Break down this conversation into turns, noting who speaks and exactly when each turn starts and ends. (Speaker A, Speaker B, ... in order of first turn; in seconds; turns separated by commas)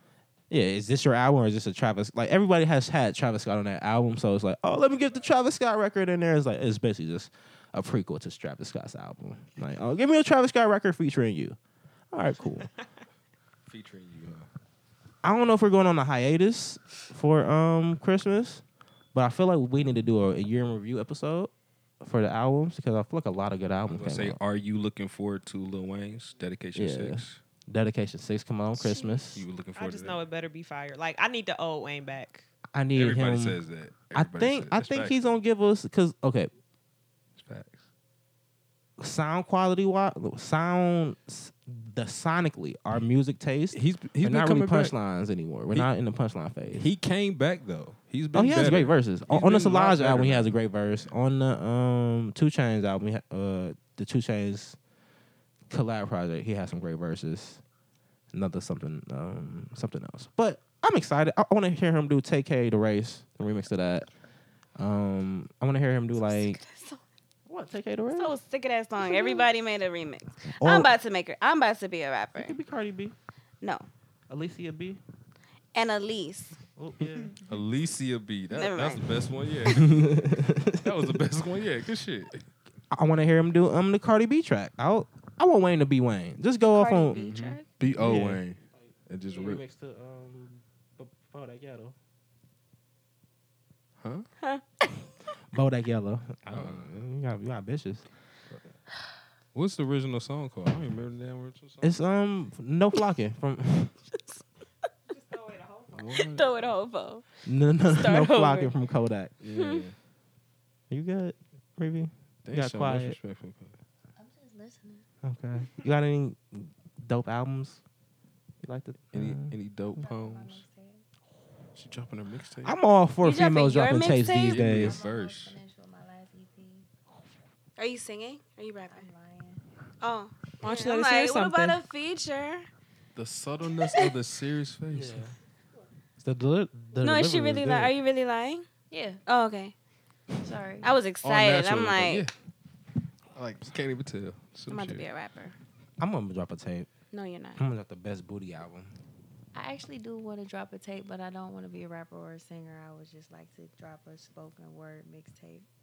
Speaker A: 0.5-11.6, Speaker A: 12.1-12.7, Speaker B: 13.7-14.5, Speaker A: 15.2-18.6, Speaker A: 19.1-24.4, Speaker B: 23.9-27.4, Speaker A: 26.7-29.4, Speaker B: 29.3-30.2, Speaker C: 29.7-32.5, Speaker A: 32.7-33.6, Speaker B: 32.9-35.2, Speaker A: 34.1-36.5, Speaker B: 37.4-37.8, Speaker A: 39.0-46.9, Speaker B: 43.7-44.9, Speaker B: 46.7-50.5, Speaker A: 48.3-54.8, Speaker A: 55.7-57.6, Speaker A: 58.3-64.1, Speaker A: 64.8-66.6, Speaker D: 66.2-67.0, Speaker A: 67.5-68.3, Speaker D: 68.1-72.6, Speaker A: 70.6-70.9, Speaker A: 72.3-73.1, Speaker D: 73.6-73.9, Speaker A: 74.3-75.0, Speaker D: 75.7-76.6, Speaker A: 76.8-77.3, Speaker B: 77.4-80.2, Speaker D: 78.5-79.1, Speaker A: 79.7-81.1, Speaker B: 80.8-82.4, Speaker A: 82.9-87.3, Speaker D: 86.6-87.7, Speaker B: 87.2-89.6, Speaker A: 88.0-92.0, Speaker B: 94.0-94.2, Speaker D: 94.4-94.9, Speaker A: 95.5-98.0, Speaker B: 96.5-96.9, Speaker B: 99.5-101.9, Speaker A: 101.8-103.9, Speaker C: 105.1-106.2, Speaker B: 105.9-106.7, Speaker D: 106.1-107.2, Speaker A: 107.5-109.3, Speaker D: 107.9-108.7, Speaker B: 109.4-109.9, Speaker D: 109.5-109.8, Speaker A: 110.9-113.2, Speaker B: 112.5-113.8, Speaker E: 114.2-115.0, Speaker A: 115.2-117.8, Speaker A: 118.6-119.5, Speaker B: 119.1-120.6, Speaker E: 119.9-121.0, Speaker B: 121.7-122.8, Speaker A: 122.6-125.0, Speaker D: 123.2-124.7, Speaker B: 124.4-125.5, Speaker E: 124.7-126.9, Speaker D: 127.8-129.1, Speaker E: 128.9-129.6, Speaker D: 130.0-132.7, Speaker C: 130.6-131.8, Speaker B: 133.2-135.2, Speaker A: 134.9-135.3, Speaker A: 136.2-137.9, Speaker D: 136.9-138.7, Speaker E: 138.9-139.2, Speaker D: 139.2-139.7, Speaker E: 140.4-140.9, Speaker D: 140.8-142.3, Speaker B: 141.2-142.3, Speaker B: 143.3-145.1, Speaker D: 144.7-145.5, Speaker A: 146.0-146.9, Speaker D: 147.1-147.6, Speaker A: 147.6-148.9, Speaker E: 149.5-155.7